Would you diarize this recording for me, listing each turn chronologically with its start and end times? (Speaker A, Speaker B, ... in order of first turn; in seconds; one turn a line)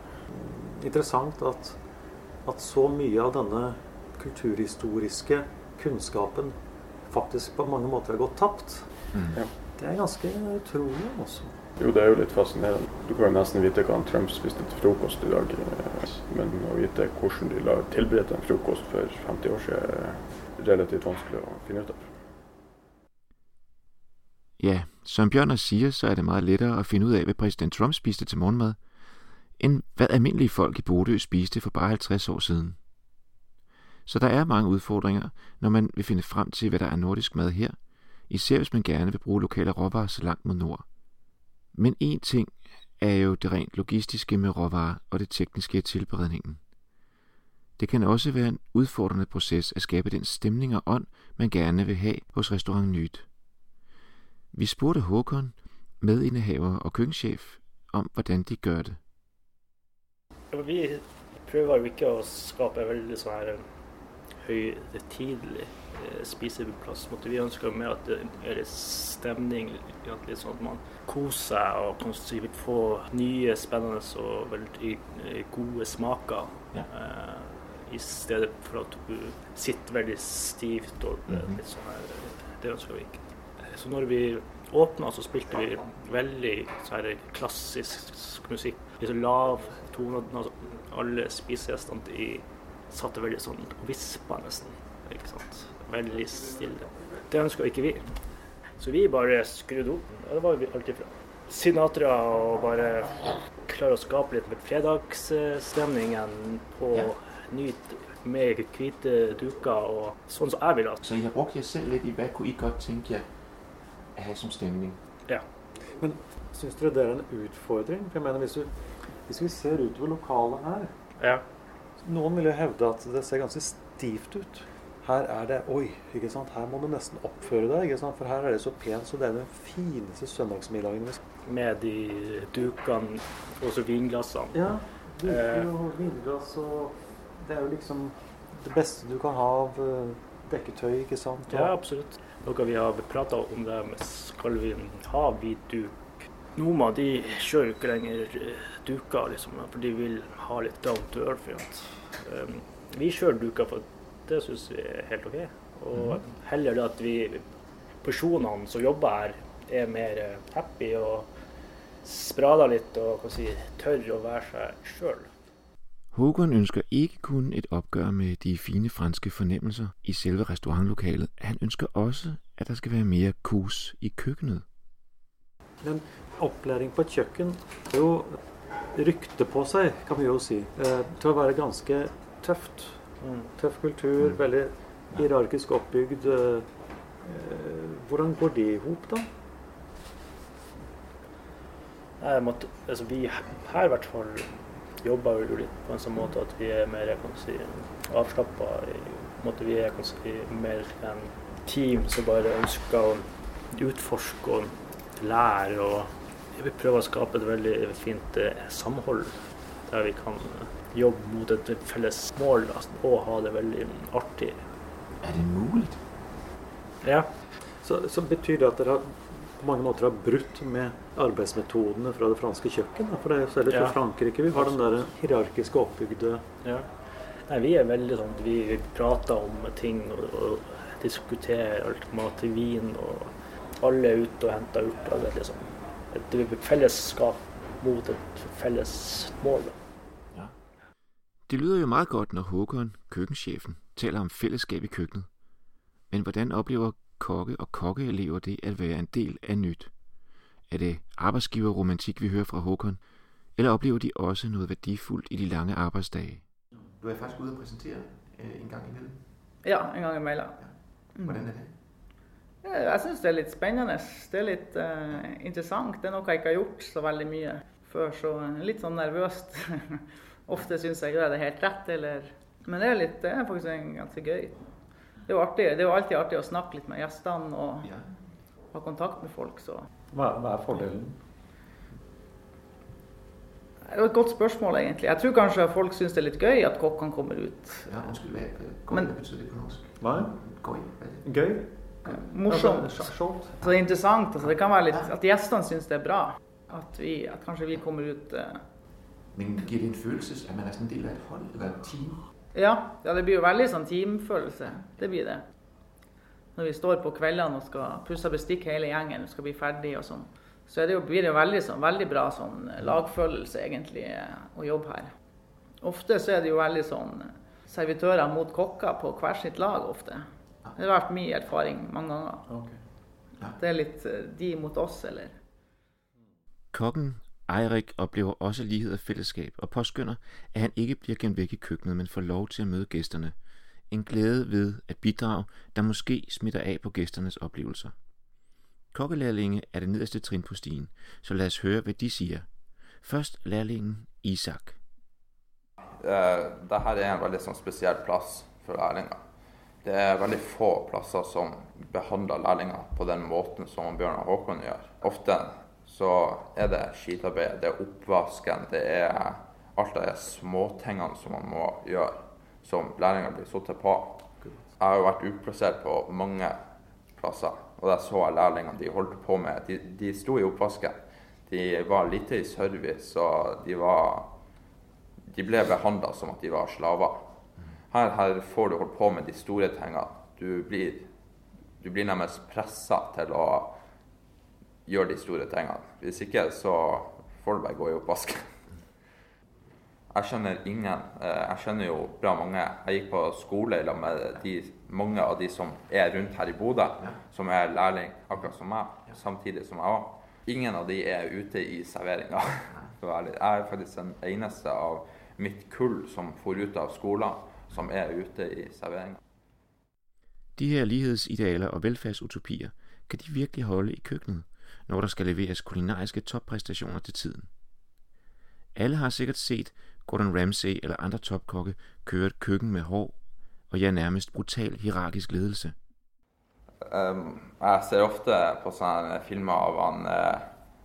Speaker A: 0.3-1.8
Speaker A: 2.4-9.1
Speaker B: 9.1-9.4
Speaker A: 9.7-11.6
Speaker C: 11.8-22.2
Speaker B: 24.6-28.8
Speaker B: 29.6-32.8
Speaker B: 34.0-37.8
Speaker B: 38.3-40.9
Speaker B: 41.7-46.6
Speaker B: 47.8-53.2
Speaker B: 54.5-59.0
Speaker D: 60.5-63.6
Speaker D: 64.4-98.1
Speaker B: 81.3-81.6
Speaker D: 98.8-111.0
Speaker B: 111.0-113.2
Speaker B: 114.1-115.0
Speaker A: 115.8-121.0
Speaker D: 121.2-121.4
Speaker A: 122.0-131.2
Speaker D: 131.4-134.7
Speaker A: 134.5-141.7
Speaker D: 135.2-135.7
Speaker D: 141.5-146.0
Speaker D: 146.5-157.4
Speaker B: 155.9-156.2
Speaker D: 158.0-161.3
Speaker D: 162.0-165.3
Speaker B: 166.1-174.6
Speaker A: 175.8-178.4
Speaker A: 178.9-189.3
Speaker D: 183.2-183.5
Speaker B: 184.2-184.6
Speaker D: 192.2-214.6
Speaker B: 215.2-216.0
Speaker D: 217.0-217.3
Speaker A: 217.7-226.5
Speaker D: 223.7-224.0
Speaker D: 224.5-225.1
Speaker D: 226.6-226.9
Speaker D: 227.4-239.8
Speaker B: 241.5-245.3
Speaker B: 246.1-249.9
Speaker B: 250.7-253.0
Speaker B: 253.6-256.4
Speaker B: 257.0-259.2
Speaker E: 259.6-260.6
Speaker B: 260.6-261.7
Speaker E: 261.1-261.5
Speaker E: 262.6-274.7
Speaker E: 275.3-277.9
Speaker B: 277.8-278.1
Speaker E: 278.7-279.9
Speaker A: 280.1-281.2
Speaker E: 283.9-288.1
Speaker B: 287.9-291.5
Speaker A: 290.0-290.4
Speaker A: 291.2-293.6
Speaker E: 292.1-298.6
Speaker B: 299.3-302.2
Speaker E: 302.5-305.4
Speaker E: 306.6-315.1
Speaker E: 315.8-322.5
Speaker A: 322.5-322.8
Speaker E: 323.4-325.3
Speaker B: 326.7-333.3
Speaker B: 333.9-337.9
Speaker B: 338.9-342.5
Speaker B: 343.0-344.8
Speaker F: 345.8-349.2
Speaker F: 349.8-364.3
Speaker F: 364.8-366.6
Speaker F: 367.1-374.3
Speaker F: 375.3-377.3
Speaker F: 377.9-381.1
Speaker F: 381.8-383.8
Speaker F: 384.9-388.6
Speaker F: 390.1-409.2
Speaker B: 410.6-417.5
Speaker B: 418.8-423.1
Speaker B: 423.7-425.7
Speaker F: 426.8-430.5